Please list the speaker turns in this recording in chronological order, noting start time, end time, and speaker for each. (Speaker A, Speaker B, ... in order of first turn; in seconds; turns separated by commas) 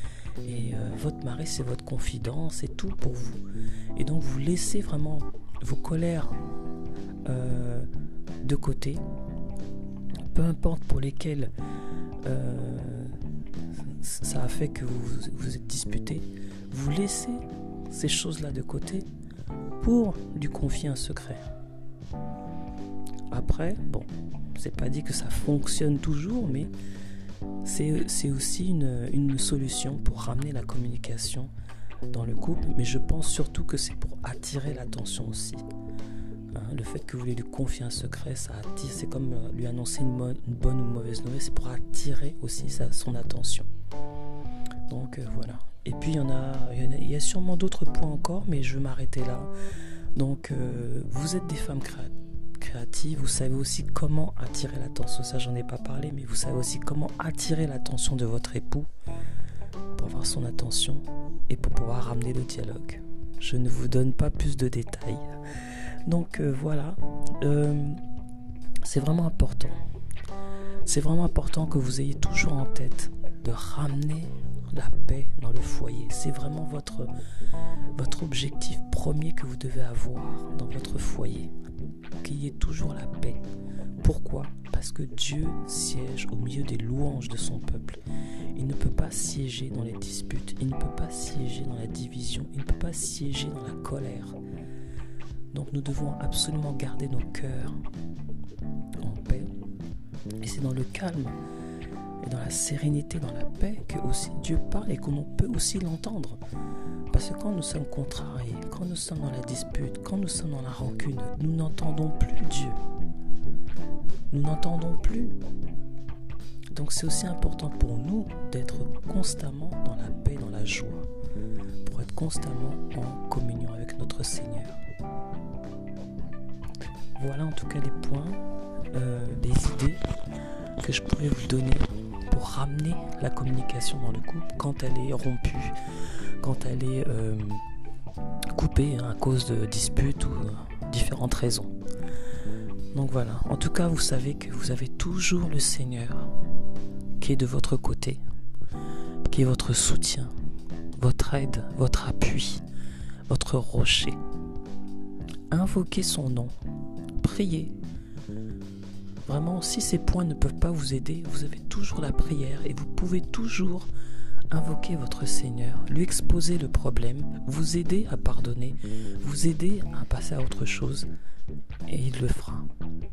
Speaker A: 0.4-3.4, Speaker A: 3.9-6.4, Speaker A: 7.2-7.9, Speaker A: 8.4-9.0, Speaker A: 10.2-11.5, Speaker A: 12.2-13.2, Speaker A: 13.9-19.1, Speaker A: 19.8-21.5, Speaker A: 23.3-26.7, Speaker A: 27.6-31.5, Speaker A: 32.1-35.6, Speaker A: 36.5-43.7, Speaker A: 44.9-49.5, Speaker A: 50.1-58.9, Speaker A: 60.0-65.4, Speaker A: 66.0-68.0, Speaker A: 68.8-69.8, Speaker A: 70.8-77.1, Speaker A: 77.9-81.5, Speaker A: 82.2-83.4, Speaker A: 84.0-88.0, Speaker A: 88.5-94.4, Speaker A: 95.5-97.8, Speaker A: 99.0-99.5, Speaker A: 100.4-101.4, Speaker A: 102.2-106.4, Speaker A: 107.1-112.8, Speaker A: 114.3-115.3, Speaker A: 116.7-121.1, Speaker A: 121.8-124.8, Speaker A: 127.2-128.4, Speaker A: 128.9-130.0, Speaker A: 130.8-135.8, Speaker A: 136.4-137.6, Speaker A: 138.5-141.7, Speaker A: 142.9-146.3, Speaker A: 147.2-148.2, Speaker A: 149.3-150.3, Speaker A: 151.0-152.6, Speaker A: 153.3-154.2, Speaker A: 155.5-156.5, Speaker A: 157.2-157.7, Speaker A: 159.2-163.9, Speaker A: 164.5-171.1, Speaker A: 171.9-172.7